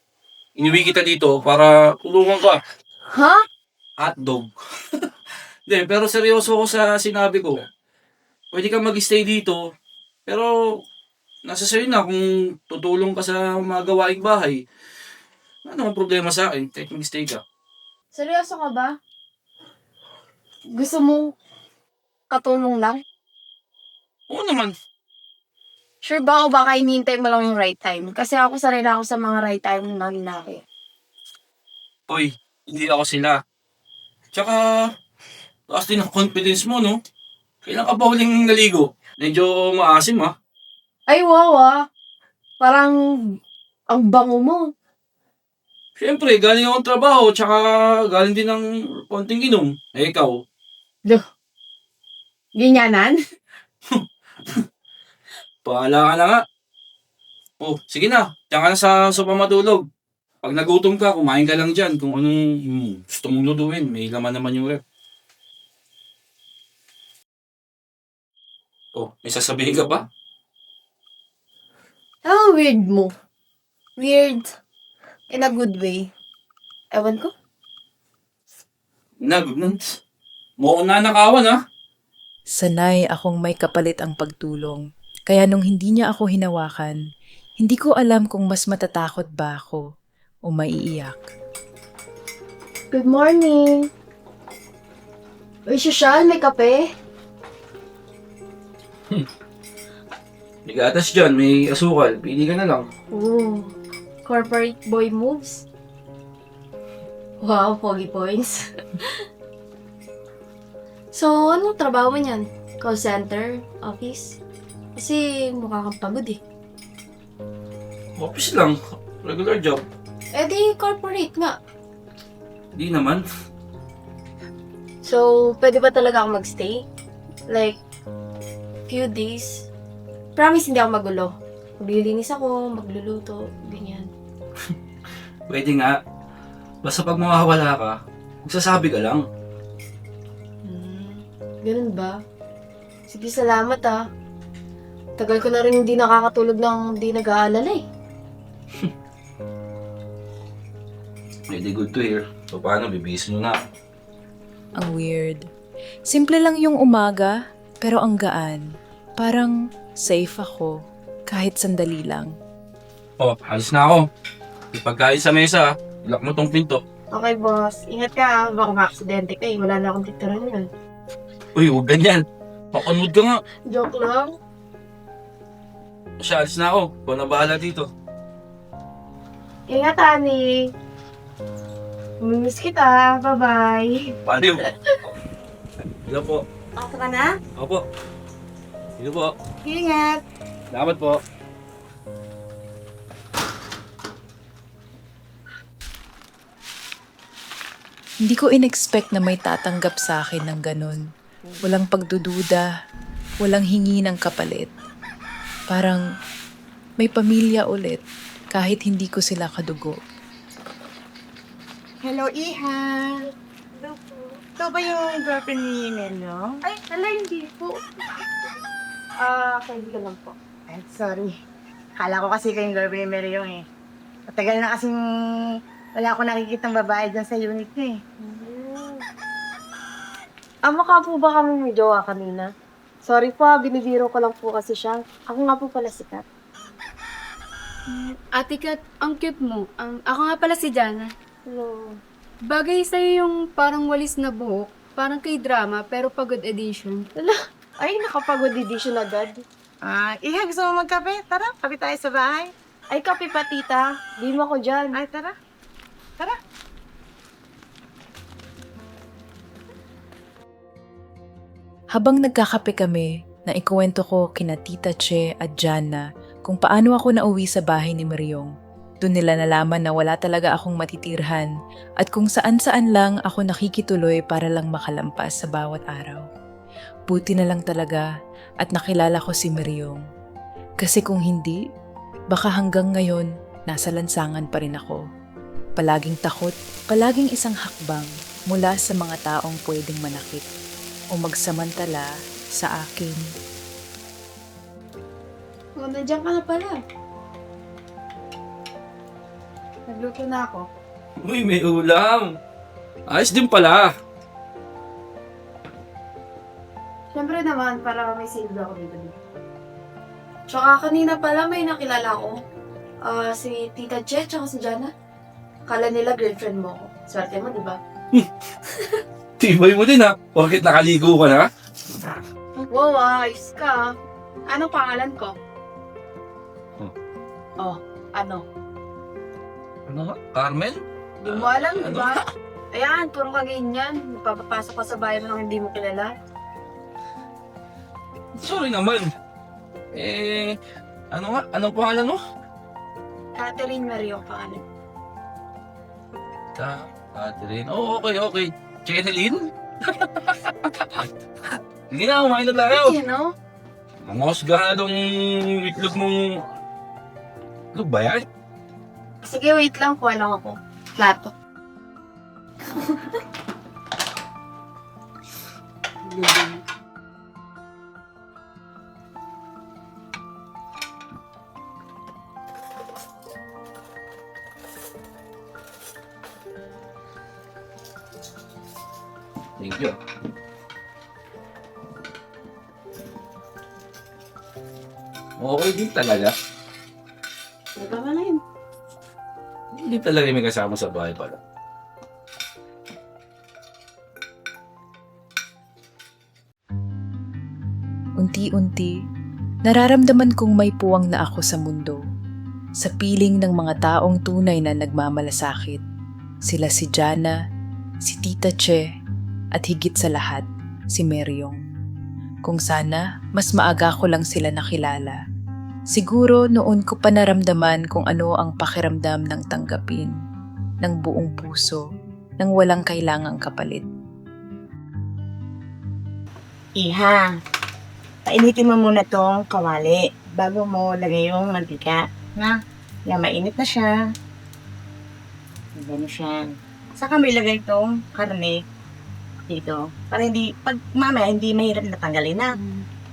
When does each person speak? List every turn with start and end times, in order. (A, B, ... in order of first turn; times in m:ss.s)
0:00.6-0:02.6 A
0:03.1-0:03.4 B
0:04.0-0:05.1 A
0:05.7-0:07.6 A
0:08.5-0:09.6 A
0:11.4-0:14.6 A
0:15.6-0:17.4 A
0:18.1-0:18.9 B
0:20.7-0:21.3 B
0:22.3-0:23.0 B
0:24.3-0:24.7 A
0:26.0-0:30.6 B
0:32.1-0:33.4 A
0:34.3-0:34.9 A
0:35.7-0:37.0 A
0:37.6-0:40.3 A
0:41.1-0:41.8 B
0:42.6-0:43.0 B
0:43.9-0:44.7 B
0:46.0-0:50.4 A
0:52.6-0:53.2 B
0:55.6-0:56.4 A
0:57.6-0:59.8 A
1:00.4-1:04.8 A
1:08.9-1:10.0 A
1:12.2-1:13.1 B
1:14.0-1:14.5 B
1:15.3-1:16.1 B
1:16.9-1:17.3 B
1:19.2-1:19.8 A
1:20.6-1:21.6 A
1:22.6-1:27.0 C
1:27.6-1:29.8 C
1:30.5-1:31.2 C
1:32.9-1:33.9 B
1:35.7-1:36.8 B
1:40.6-1:42.8 A
1:43.1-1:43.7 B
1:44.2-1:45.6 B
1:47.4-1:49.1 B
1:51.1-1:54.4 B
1:55.0-1:56.4 B
1:58.2-1:59.8 A
2:00.3-2:01.6 B
2:02.8-2:03.2 A
2:05.0-2:06.8 B
2:07.5-2:07.8 B
2:08.9-2:09.6 B
2:10.4-2:14.1 B
2:15.5-2:16.0 A
2:16.8-2:19.2 A
2:20.6-2:22.2 B
2:23.1-2:24.0 B
2:25.2-2:27.8 B
2:31.5-2:33.6 A
2:34.8-2:35.4 C
2:36.1-2:38.6 C
2:39.2-2:40.7 C
2:41.3-2:42.3 C
2:43.2-2:44.0 A
2:44.7-2:46.8 A
2:47.1-2:50.7 B
2:51.6-2:53.4 A
2:53.7-2:54.3 B
2:56.2-2:57.8 A
2:59.7-3:00.6 B
3:02.2-3:04.0 B
3:04.2-3:04.6 A
3:04.7-3:05.0 B
3:06.1-3:06.4 A
3:06.8-3:07.3 D
3:07.6-3:07.8 A
3:09.0-3:09.3 A
3:09.6-3:10.2 D
3:10.7-3:11.2 A
3:18.2-3:21.0 C
3:21.6-3:22.7 C
3:23.4-3:24.7 C
3:25.7-3:26.0 C
3:27.0-3:28.0 C
3:28.5-3:30.0 C
3:32.0-3:33.2 D
3:33.8-3:34.4 B
3:34.6-3:36.6 D
3:36.9-3:37.8 B
3:39.2-3:40.3 B
3:40.7-3:41.3 D
3:42.0-3:43.6 D
3:44.3-3:45.4 D
3:46.0-3:48.0 D
3:48.2-3:49.0 B
3:50.6-3:52.5 B
3:53.0-3:56.2 B
3:58.3-4:01.1 E
4:01.5-4:02.0 B
4:02.5-4:07.0 E
4:07.2-4:09.4 B
4:09.8-4:12.5 D
4:12.9-4:15.0 B
4:14.9-4:15.3 D
4:21.9-4:28.5 C
4:29.0-4:31.5 C
4:32.0-4:36.2 C
4:37.1-4:38.1 C
4:38.6-4:40.0 C
4:40.8-4:41.6 C
4:42.3-4:45.0 C
4:45.8-4:50.5 C
4:51.1-4:53.2 C
4:55.8-4:56.8 B
4:59.9-5:00.7 B
5:01.2-5:02.3 A
5:03.1-5:03.9 A
5:07.1-5:09.2 B
5:10.5-5:12.4 B
5:13.0-5:14.9 B
5:15.7-5:17.8 B
5:19.4-5:21.5 A
5:22.6-5:23.9 B
5:24.5-5:25.4 B
5:27.6-5:28.4 B
5:29.9-5:32.1 A
5:31.2-5:36.1 B
5:38.4-5:39.1 A
5:39.9-5:40.6 A
5:41.1-5:42.2 A
5:43.4-5:44.6 B
5:46.6-5:51.1 A
5:51.9-5:53.0 A
5:52.7-5:53.3 B
5:54.0-5:56.4 A
5:57.7-5:58.2 A
5:59.2-6:01.3 B
6:02.7-6:03.0 B
6:06.0-6:06.6 B
6:19.6-6:20.0 A
6:25.4-6:26.3 A
6:27.8-6:28.4 B
6:29.7-6:31.4 A
6:38.2-6:38.9 C
6:39.6-6:42.0 C
6:42.8-6:45.8 C
6:46.5-6:47.4 C
6:48.0-6:48.8 C
6:49.6-6:51.6 C
6:52.4-6:55.2 C
6:55.9-7:00.1 C
7:00.8-7:01.8 C
7:02.4-7:03.8 C
7:06.8-7:07.3 D
7:08.3-7:12.6 D
7:13.1-7:13.9 D
7:15.8-7:18.6 D
7:19.5-7:22.5 D
7:22.6-7:22.8 B